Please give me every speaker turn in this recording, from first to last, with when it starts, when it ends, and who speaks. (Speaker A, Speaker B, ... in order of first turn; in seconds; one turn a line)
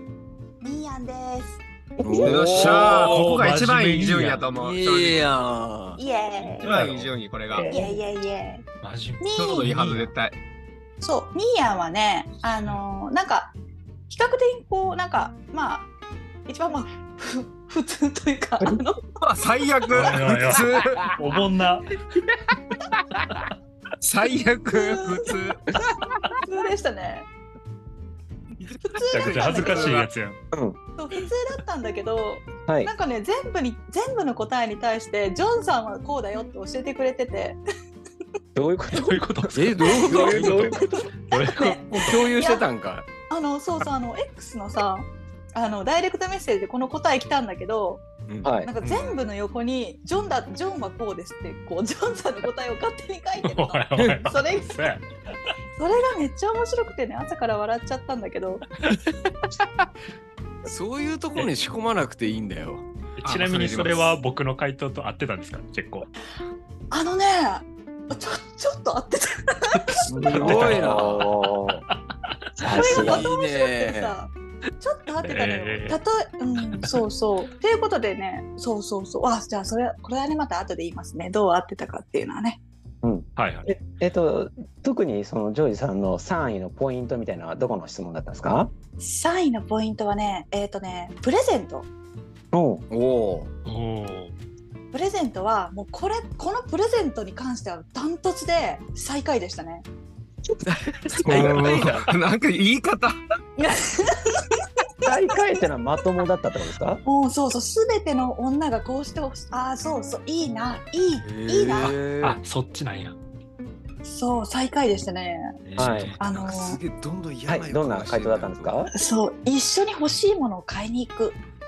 Speaker A: 0.6-1.6
Speaker B: 2.0-3.0
Speaker C: 2.0-3.3
Speaker D: 2.2-5.2
Speaker E: 3.0-4.5
Speaker C: 4.5-6.0
Speaker A: 6.0-6.7
Speaker D: 6.6-7.7
Speaker E: 6.6-7.1
Speaker C: 6.7-7.0
Speaker B: 7.5-7.9
Speaker A: 7.7-8.6
Speaker E: 8.8-10.1
Speaker A: 9.2-9.7
Speaker D: 9.4-10.4
Speaker A: 11.0-13.5
Speaker A: 14.1-15.9
Speaker A: 16.5-19.0
Speaker D: 19.2-21.1
Speaker E: 19.9-22.0
Speaker D: 24.0-25.6
Speaker A: 24.7-25.3
Speaker A: 26.4-27.3
Speaker D: 28.6-30.1
Speaker A: 28.8-30.0
Speaker E: 29.1-30.4
Speaker B: 30.5-30.8
Speaker A: 31.0-37.6
Speaker B: 38.5-39.2
Speaker E: 38.9-42.2
Speaker C: 39.5-40.9
Speaker A: 39.9-40.5
Speaker B: 40.1-40.9
Speaker A: 41.3-42.6
Speaker C: 41.9-43.1
Speaker A: 43.3-48.0
Speaker B: 48.4-48.7
Speaker A: 48.6-54.9
Speaker E: 48.8-49.1
Speaker E: 53.4-55.5
Speaker A: 55.8-58.6
Speaker C: 60.6-62.9
Speaker E: 63.2-66.1
Speaker D: 63.2-64.1
Speaker A: 66.9-70.0
Speaker C: 70.1-71.3
Speaker B: 70.3-71.8
Speaker E: 70.3-71.2
Speaker E: 71.9-72.3
Speaker B: 72.6-73.3
Speaker A: 72.7-82.6
Speaker C: 72.8-74.2
Speaker E: 75.1-76.0
Speaker E: 76.6-77.0
Speaker B: 83.0-88.7
Speaker E: 83.3-83.8
Speaker A: 89.0-91.9
Speaker B: 92.5-92.8
Speaker C: 92.9-93.5
Speaker E: 93.7-94.3
Speaker A: 94.9-99.8
Speaker C: 100.6-102.1
Speaker D: 101.2-103.2
Speaker B: 101.2-101.5
Speaker A: 103.6-105.0
Speaker B: 105.0-107.0
Speaker A: 107.0-112.0
Speaker C: 111.2-112.4
Speaker E: 112.2-113.2
Speaker A: 114.0-115.5
Speaker E: 115.6-116.3
Speaker B: 115.8-116.1
Speaker C: 116.1-118.8
Speaker A: 116.2-116.8
Speaker B: 117.5-118.9
Speaker A: 118.9-121.4